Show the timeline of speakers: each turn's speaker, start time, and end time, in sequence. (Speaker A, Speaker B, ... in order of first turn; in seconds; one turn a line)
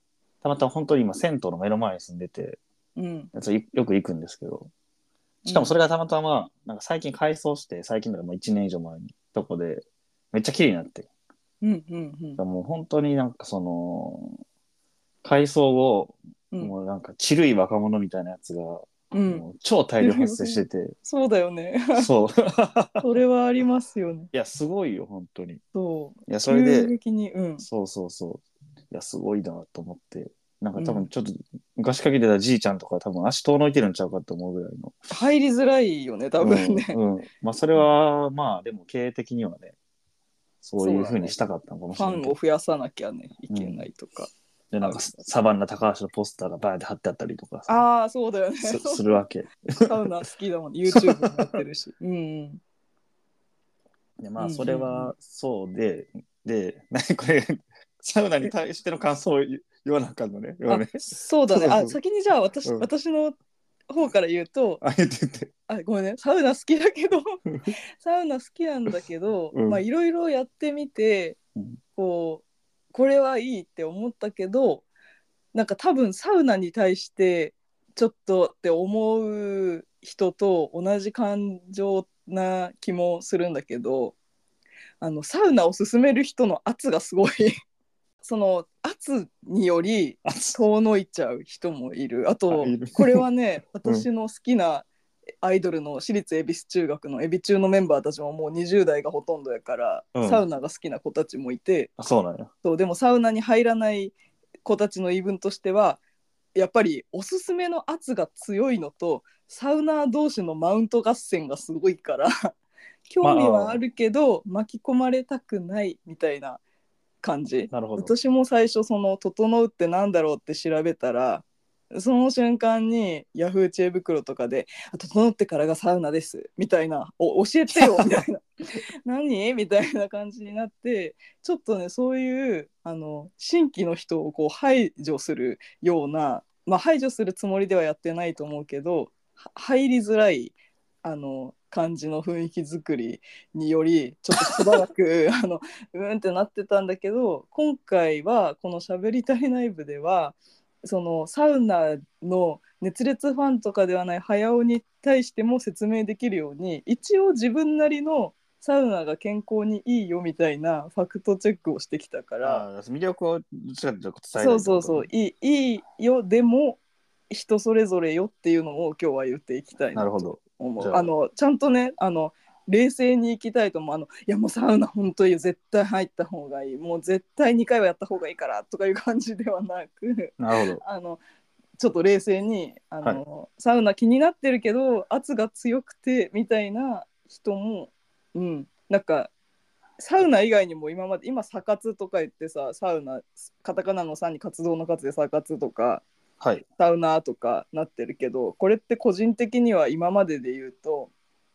Speaker A: 0.4-2.6
Speaker B: 3.0-3.3
Speaker A: 3.3-4.7
Speaker B: 5.4-5.7
Speaker A: 5.5-11.1
Speaker B: 11.6-12.4
Speaker A: 12.4-14.4
Speaker A: 15.2-20.9
Speaker B: 19.1-19.4
Speaker B: 20.0-22.1
Speaker A: 21.9-23.1
Speaker B: 23.0-24.3
Speaker A: 24.3-25.6
Speaker B: 25.7-27.6
Speaker A: 26.3-26.9
Speaker A: 27.6-35.0
Speaker B: 30.8-31.1
Speaker B: 35.1-37.0
Speaker A: 36.4-39.7
Speaker A: 40.6-42.3
Speaker B: 40.8-41.3
Speaker B: 41.9-45.1
Speaker A: 43.5-43.8
Speaker A: 44.7-47.7
Speaker B: 47.7-49.2
Speaker A: 48.6-49.9
Speaker B: 49.9-52.6
Speaker A: 50.9-51.6
Speaker A: 54.2-62.0
Speaker B: 54.4-55.1
Speaker B: 60.7-63.4
Speaker B: 63.9-64.8
Speaker A: 64.8-65.5
Speaker B: 65.7-67.2
Speaker A: 67.5-67.7
Speaker B: 68.0-71.4
Speaker A: 69.5-69.8
Speaker B: 72.0-74.8
Speaker B: 75.5-84.2
Speaker B: 85.0-87.5
Speaker B: 88.2-94.9
Speaker A: 90.2-90.6
Speaker A: 92.5-93.2
Speaker B: 95.4-101.9
Speaker A: 100.1-100.4
Speaker A: 102.0-102.5
Speaker B: 102.6-106.0
Speaker B: 106.5-112.3
Speaker B: 113.1-116.6
Speaker A: 113.2-113.8
Speaker B: 117.2-128.4
Speaker A: 117.7-118.1
Speaker A: 127.7-128.2
Speaker B: 129.1-162.6
Speaker A: 162.4-165.1
Speaker B: 164.3-181.2
Speaker A: 169.9-171.1
Speaker A: 180.4-180.8
Speaker B: 181.8-189.3
Speaker B: 190.0-196.0
Speaker B: 196.8-201.1